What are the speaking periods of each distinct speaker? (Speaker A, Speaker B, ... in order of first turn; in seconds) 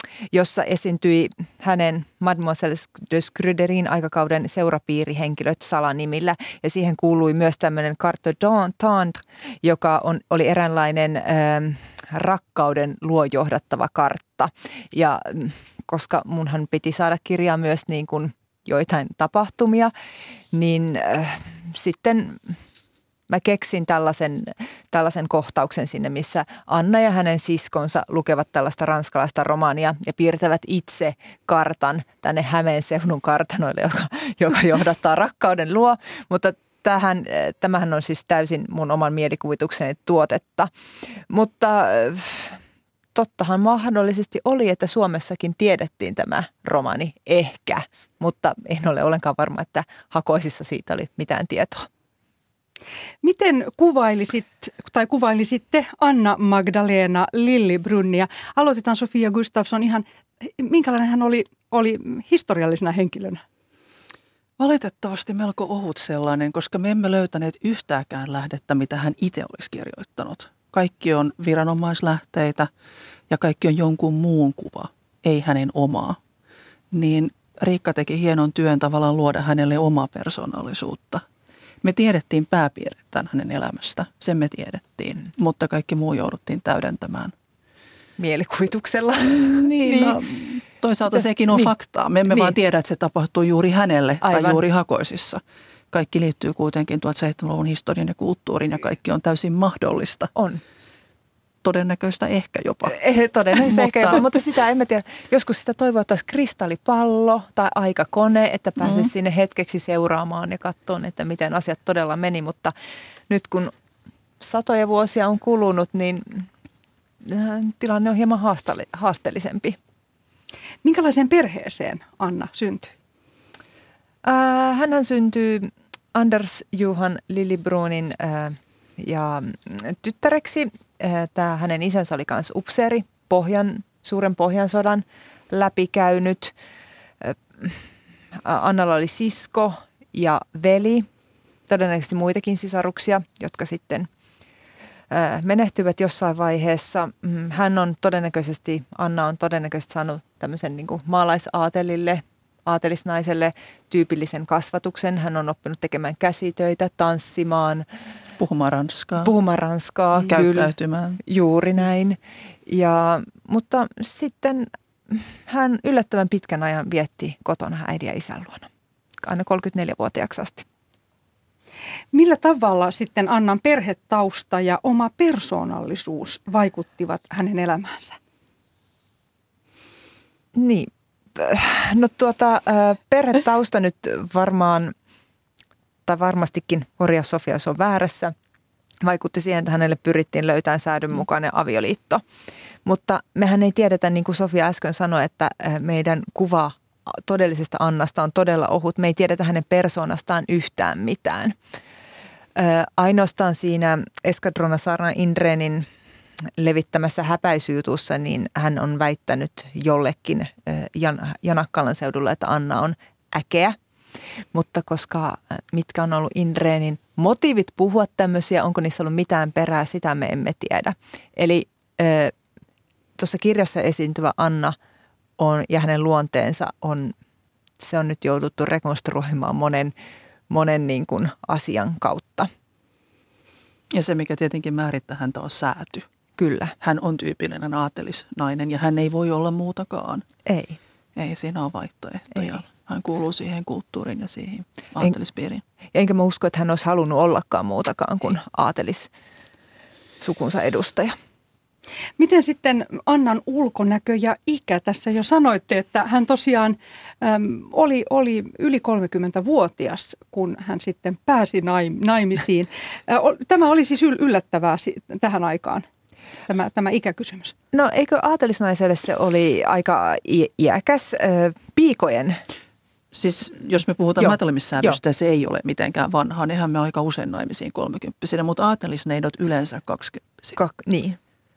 Speaker A: 0.3-19.9, 20.5-22.6, 23.3-42.6, 43.1-51.9, 88.2-90.3, 91.2-91.7, 92.3-92.6, 94.2-94.6, 100.4-100.6, 102.9-112.7, 113.3-113.7, 114.4-116.5, 117.2-119.8, 124.2-136.6, 137.2-141.1, 141.7-144.1, 145.1-157.9, 159.2-160.7, 161.2-168.7, 169.2-170.7, 180.6-184.9, 186.1-188.3, 189.0-192.2, 192.8-201.6, 202.6-205.9, 206.6-213.8, 214.5-222.3, 223.2-224.8, 225.4-227.1, 227.8-229.9, 230.5-232.5, 236.4-236.7, 240.5-240.8, 245.9-249.1, 250.2-251.2, 267.7-272.4, 274.2-275.0, 280.6-281.2
Speaker B: 53.2-63.4, 120.8-122.9, 172.1-178.2, 252.2-265.9, 266.5-267.6
Speaker C: 64.6-72.7, 73.3-76.2, 76.9-81.2, 81.8-87.3, 89.2-95.4, 95.9-100.3, 101.6-104.3, 108.8-109.1, 158.4-159.3, 160.2-161.2, 233.9-236.1, 236.8-240.3, 241.2-245.6, 273.1-280.6